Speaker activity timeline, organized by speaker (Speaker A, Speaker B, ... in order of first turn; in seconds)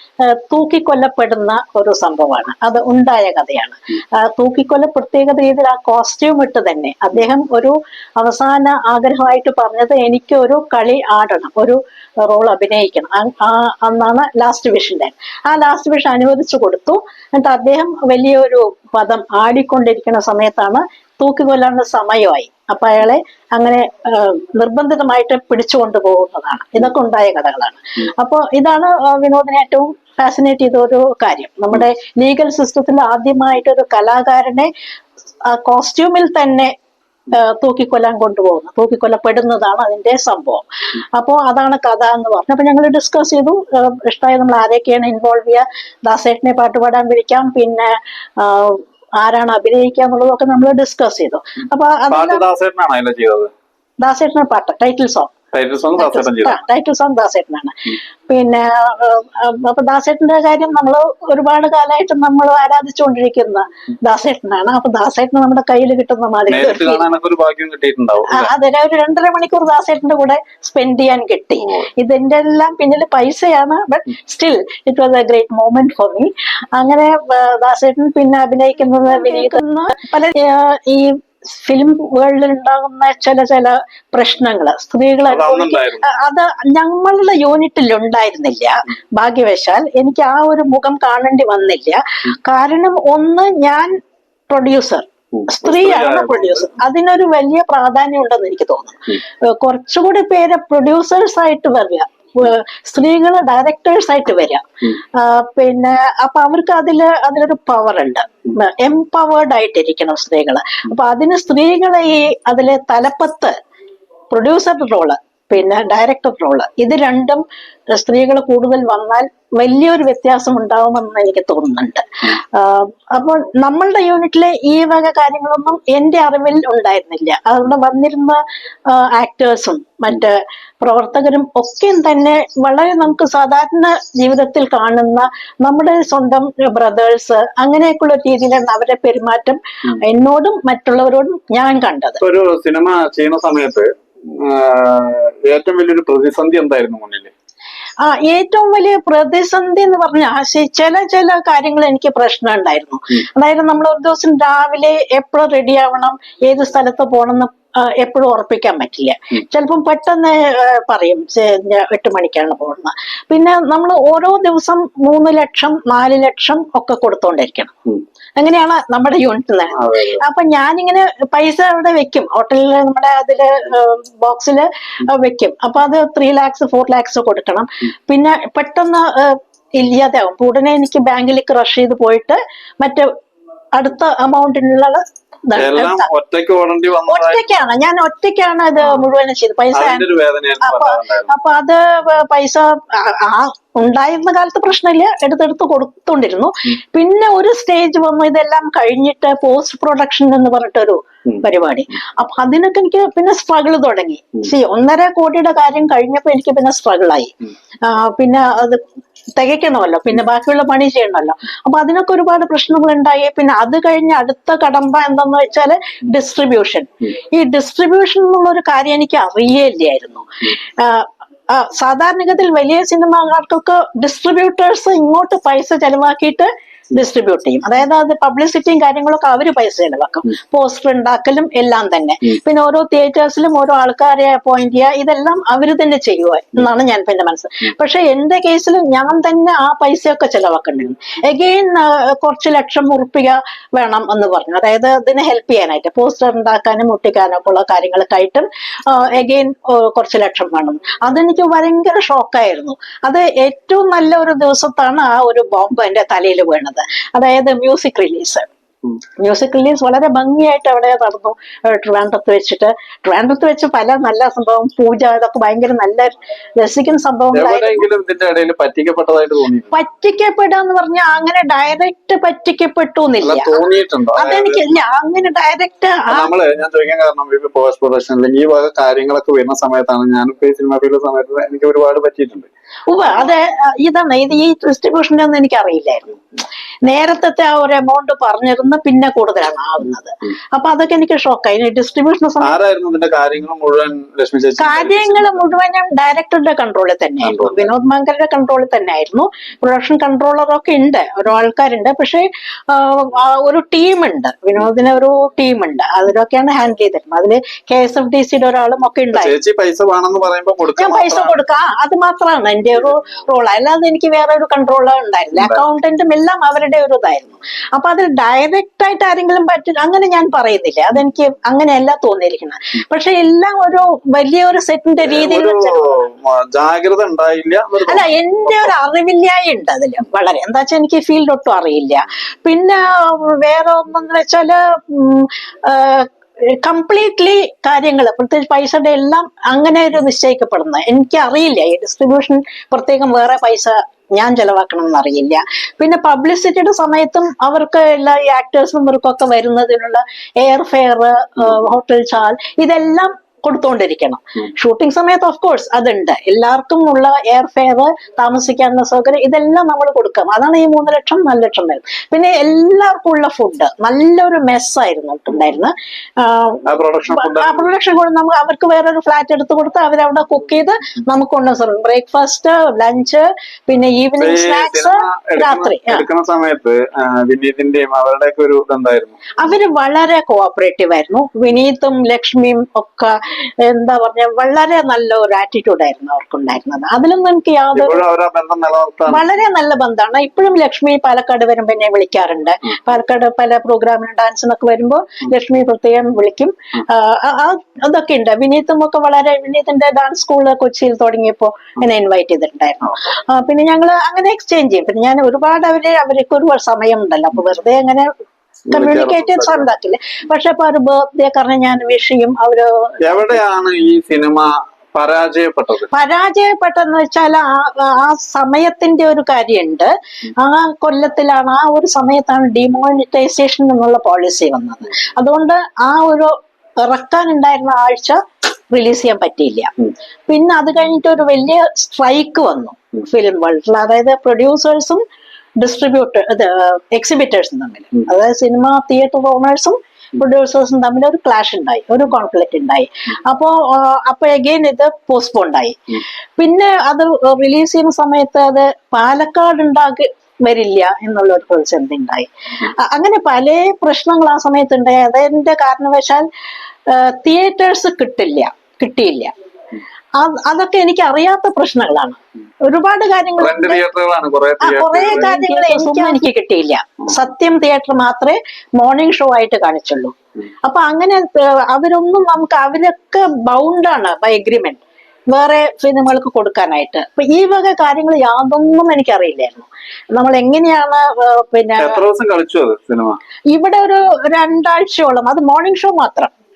Speaker A: 0.2-34.7, 35.5-36.7, 37.3-52.4, 54.0-55.3, 56.0-67.0, 68.3-93.9, 94.5-113.5, 114.3-117.4, 117.9-142.2, 148.0-167.7, 168.4-183.1, 183.7-186.1, 187.1-190.1, 190.6-207.3, 207.8-208.8, 209.3-258.4, 259.2-267.9, 269.7-273.6, 274.1-276.3, 282.9-286.1, 286.8-292.6, 294.6-309.3, 310.8-325.8, 327.9-376.0, 379.4-388.0, 389.1-408.1, 408.7-413.4, 415.9-428.2, 428.7-429.7, 430.3-435.0, 435.6-456.2, 456.9-459.3, 460.2-463.8, 464.6-482.0, 483.5-486.3
Speaker B: 52.1-53.5, 55.5-56.6, 66.5-68.5, 85.3-86.0, 95.4-96.7, 142.2-147.3, 169.7-170.2, 185.6-187.4, 189.7-191.3, 267.3-269.7, 273.2-274.6, 276.1-282.5, 292.4-295.3, 297.2-297.7, 309.1-311.4, 315.4-315.6, 325.0-328.7, 366.6-367.7, 374.2-379.1, 387.7-389.2, 408.7-409.7, 413.0-415.9, 463.4-465.4, 481.8-483.2